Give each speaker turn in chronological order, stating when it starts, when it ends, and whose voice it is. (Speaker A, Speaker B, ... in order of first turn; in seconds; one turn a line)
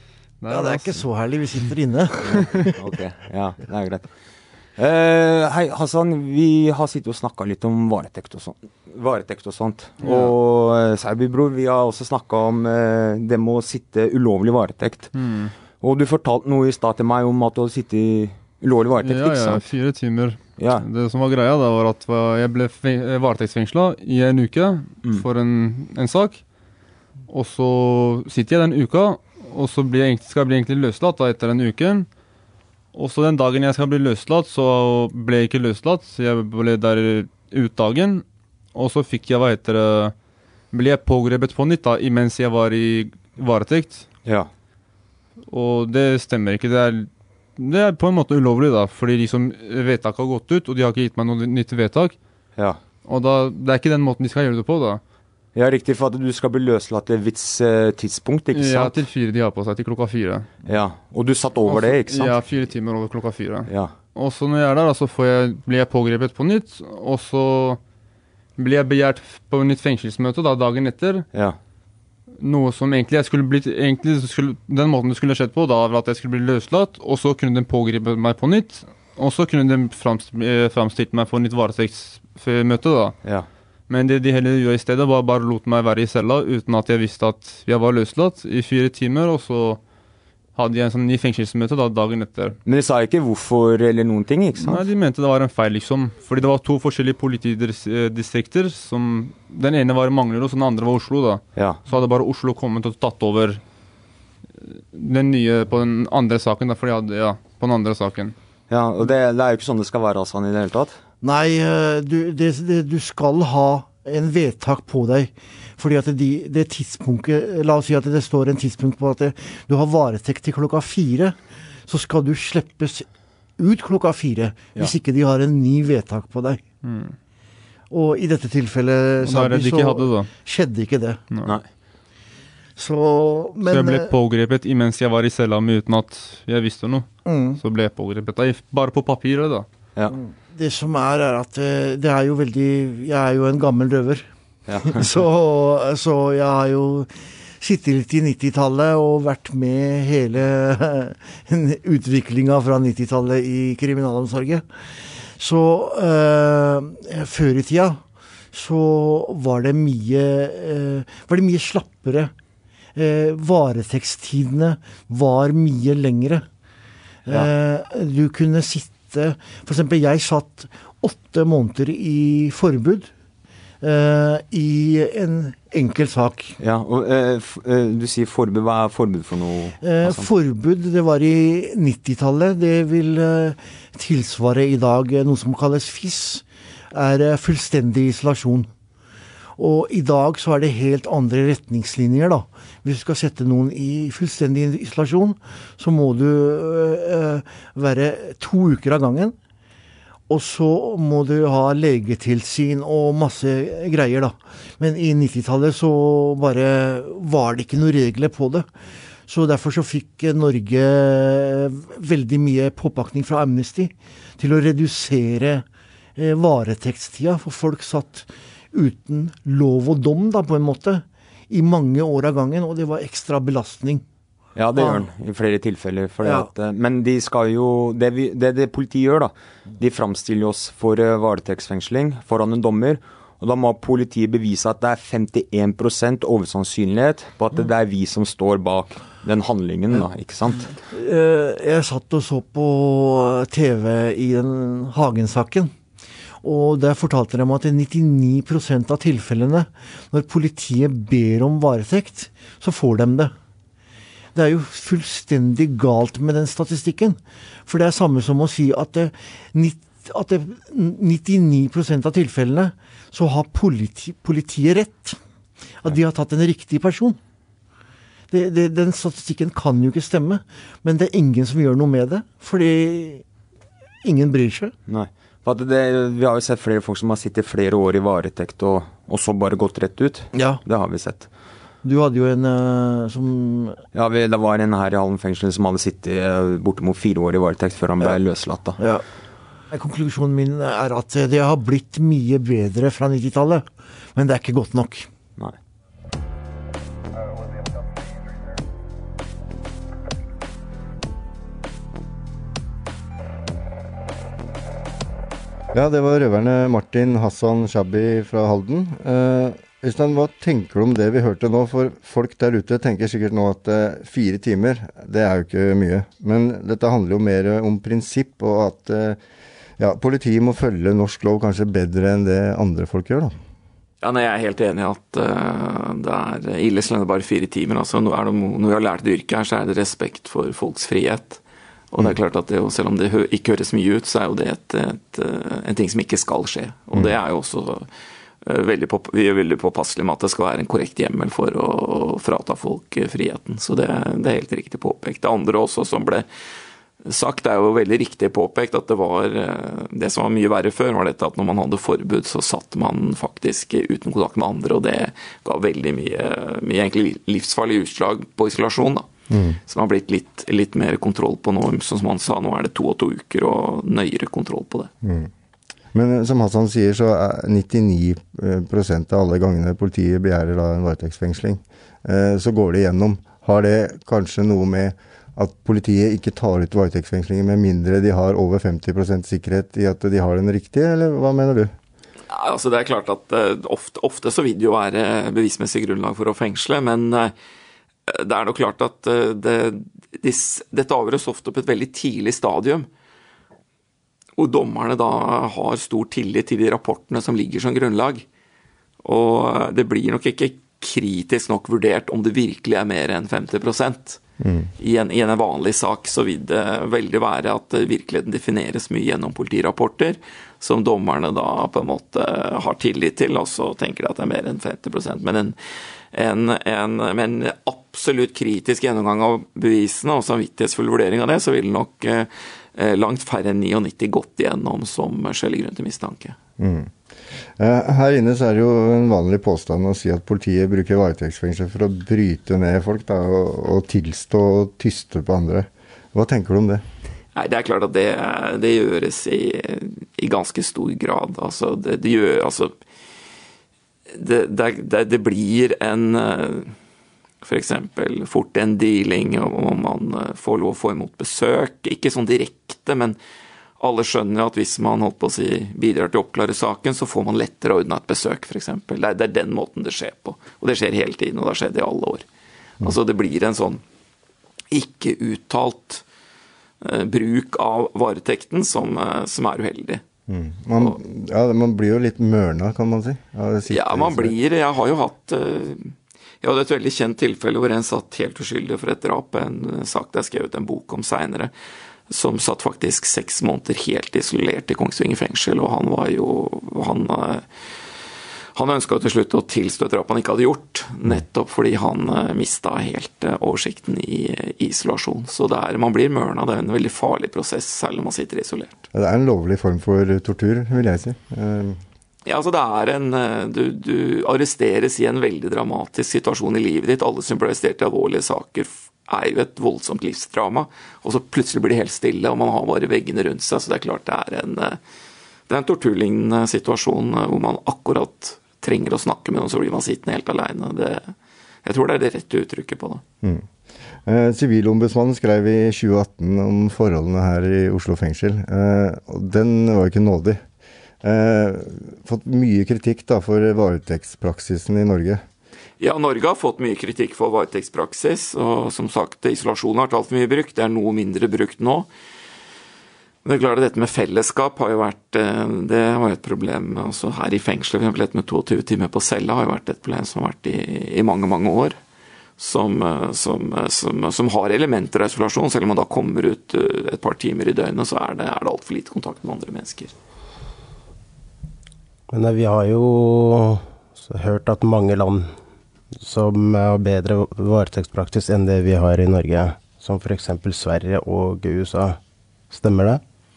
Speaker A: 0.4-1.1
Speaker B: 0.5-2.7
Speaker C: 2.8-4.1
Speaker C: 4.8-19.7
Speaker A: 10.0-10.3
Speaker A: 15.1-15.5
Speaker A: 19.0-26.4
Speaker C: 20.5-20.9
Speaker C: 25.0-25.2
Speaker A: 27.3-32.1
Speaker A: 32.9-40.1
Speaker A: 40.7-44.1
Speaker C: 44.2-44.5
Speaker A: 45.5-52.2
Speaker C: 52.5-52.8
Speaker A: 53.0-55.0
Speaker C: 55.5-59.0
Speaker A: 58.5-60.5
Speaker C: 60.6-62.7
Speaker A: 61.6-67.8
Speaker C: 63.6-64.0
Speaker A: 68.6-71.2
Speaker C: 71.3-71.6
Speaker A: 72.4-83.2
Speaker C: 83.2-83.5
Speaker A: 83.9-89.8
Speaker A: 90.5-92.6
Speaker C: 92.6-94.8
Speaker A: 94.6-103.6
Speaker C: 101.5-101.8
Speaker A: 104.9-108.3
Speaker C: 108.7-111.0
Speaker B: 111.2-126.6
Speaker A: 126.8-127.1
Speaker B: 127.9-131.2
Speaker A: 129.2-130.3
Speaker C: 131.4-131.7
Speaker B: 132.8-134.1
Speaker A: 133.7-139.7
Speaker B: 137.2-137.6
Speaker B: 140.2-144.3
Speaker C: 144.7-145.0
Speaker B: 144.9-154.6
Speaker B: 155.3-162.3
Speaker B: 162.9-166.4
Speaker B: 167.2-173.1
Speaker B: 173.8-176.5
Speaker C: 176.6-180.3
Speaker B: 179.8-188.7
Speaker B: 189.6-199.3
Speaker B: 200.3-208.7
Speaker B: 209.3-215.6
Speaker B: 216.2-224.0
Speaker C: 224.5-240.8
Speaker B: 224.8-225.1
Speaker B: 226.2-226.5
Speaker B: 240.9-245.7
Speaker B: 246.4-253.3
Speaker B: 254.3-265.2
Speaker B: 265.8-267.2
Speaker B: 268.3-273.2
Speaker B: 274.0-274.7
Speaker C: 274.8-281.3
Speaker B: 280.3-280.6
Speaker B: 281.8-283.8
Speaker C: 283.9-288.8
Speaker B: 289.7-295.1
Speaker D: 305.7-319.2
Speaker D: 319.8-323.3
Speaker E: 324.0-331.4
Speaker E: 331.9-337.9
Speaker E: 338.4-346.2
Speaker E: 347.0-359.1
Speaker D: 359.3-359.6
Speaker E: 359.7-364.9
Speaker D: 365.0-365.3
Speaker D: 365.9-381.7
Speaker E: 382.3-387.3
Speaker E: 388.1-392.9
Speaker E: 394.4-398.2
Speaker E: 399.0-404.2
Speaker D: 404.4-404.7
Speaker E: 404.8-415.6
Speaker E: 416.1-426.4
Speaker D: 426.6-426.9
Speaker D: 427.6-436.8
Speaker E: 437.3-442.7
Speaker E: 444.1-446.7
Speaker E: 447.4-453.2
Speaker E: 453.8-462.2
Speaker E: 462.8-463.8
Speaker E: 464.7-466.0
Speaker E: 466.8-470.0
Speaker D: 470.3-474.3
Speaker E: 473.7-481.5
Speaker E: 482.1-487.4
Speaker E: 488.6-498.7
Speaker D: 498.9-501.8
Speaker E: 502.2-514.8
Speaker E: 515.5-523.0
Speaker D: 524.0-530.4
Speaker D: 531.0-535.2
Speaker E: 535.8-541.9
Speaker E: 543.2-551.8
Speaker E: 552.4-559.9
Speaker F: 562.1-565.3
Speaker F: 566.0-572.0
Speaker F: 572.5-573.0